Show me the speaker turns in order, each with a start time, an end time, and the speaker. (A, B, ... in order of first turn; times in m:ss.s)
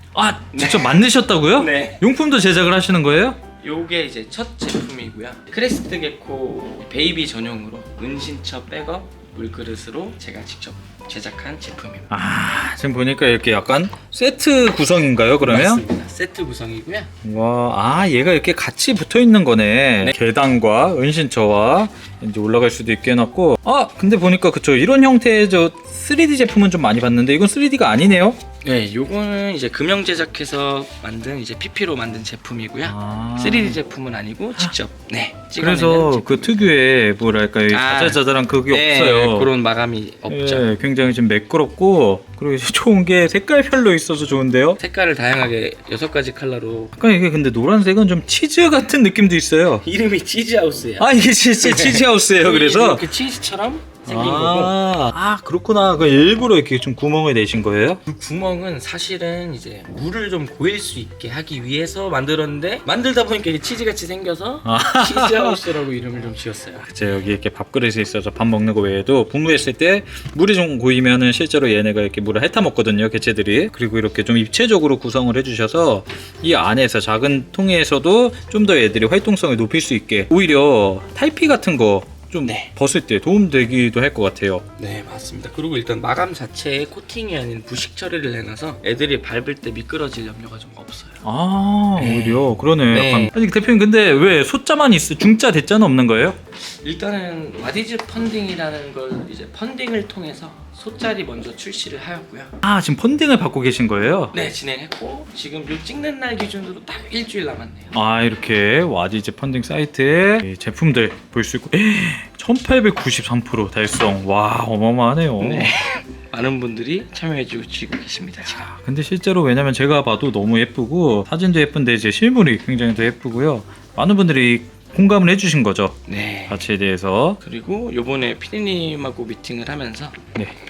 0:00.2-0:03.4 A
0:00.5-0:02.0 B
0:03.6-0:12.1 B
0:12.1-0:15.8 A
0:15.4-0:17.1 B
0:17.2-0:28.4 A
0:28.6-0:36.6 B
0:32.8-0:33.8 A
0:35.6-0:39.5 A
0:37.7-0:40.8 B
0:40.3-0:44.8 A
0:44.8-0:46.9 B
0:47.0-0:49.8 A
0:49.8-0:54.8 B
0:51.0-0:53.1 A
0:54.1-0:58.0 A
0:58.1-1:06.9 B
1:04.6-1:05.6 A
1:06.8-1:24.6 A
1:22.4-1:22.7 B
1:24.8-1:31.2 B
1:31.2-1:36.4 A
1:32.0-1:33.3 B
1:36.6-1:42.6 B
1:42.6-1:44.4 A
1:44.3-1:47.9 B
1:47.9-1:55.7 A
1:55.4-1:58.7 B
1:58.5-2:06.0 A
2:06.1-2:06.6 B
2:06.5-2:07.4 A
2:07.4-2:10.2 B